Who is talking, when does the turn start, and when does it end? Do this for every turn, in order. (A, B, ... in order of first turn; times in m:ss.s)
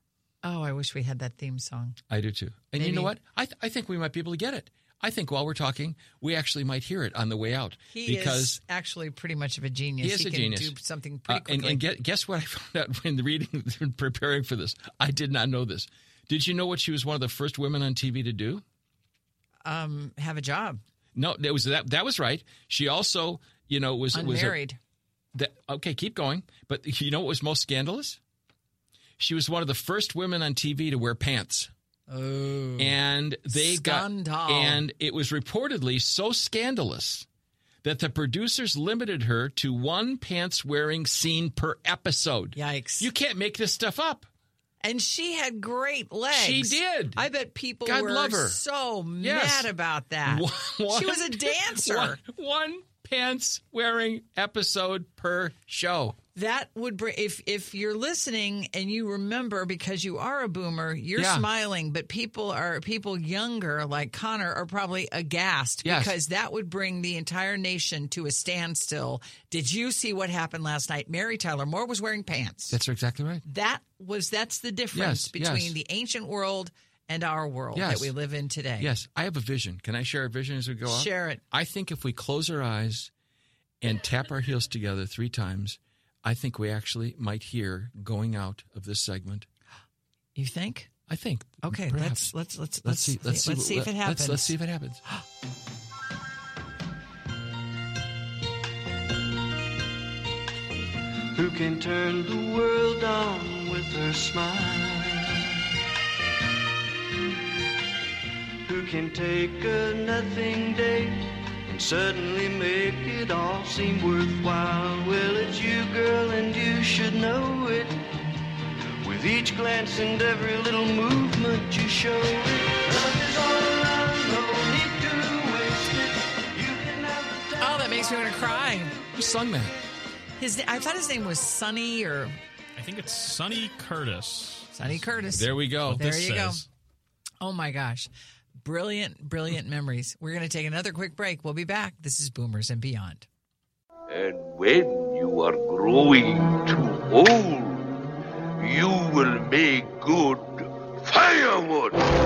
0:00.4-0:02.0 A
0:02.1-0:08.6 B
0:02.7-0:03.1 A
0:07.9-0:11.8 A
0:10.0-0:10.7 B
0:11.3-0:18.6 B
0:19.6-0:20.8 A
0:21.1-0:24.6 B
0:24.1-0:24.8 A
0:25.3-0:28.2 B
0:29.2-0:31.7 B
0:32.1-0:33.0 A
0:32.8-0:37.2 B
0:33.5-0:34.8 A
0:37.8-0:44.3 B
0:42.6-0:43.1 A
0:44.8-0:52.2 A
0:46.3-0:47.2 B
0:47.8-0:48.6 B
0:49.2-0:49.7 B
0:50.2-0:56.2 B
0:56.3-1:12.8 A
1:01.2-1:01.4 B
1:05.8-1:06.1 B
1:12.7-1:13.4 B
1:13.4-1:18.9 A
1:14.9-1:15.8 B
1:17.7-1:18.1 B
1:18.8-1:23.1 B
1:20.8-1:21.4 A
1:23.8-1:29.5 B
1:30.4-1:30.9 A
1:31.1-1:32.3 B
1:31.6-1:34.5 A
1:32.8-1:35.0 B
1:41.4-1:45.1 C
1:48.7-1:57.9 C
1:59.0-2:07.4 C
2:07.6-2:08.9 A
2:09.1-2:09.8 B
2:10.4-2:12.4 A
2:12.8-2:15.0 D
2:14.7-2:16.6 A
2:15.3-2:16.6 B
2:17.4-2:18.1 A
2:18.6-2:23.2 A
2:24.1-2:28.0 E
2:28.6-2:32.0 E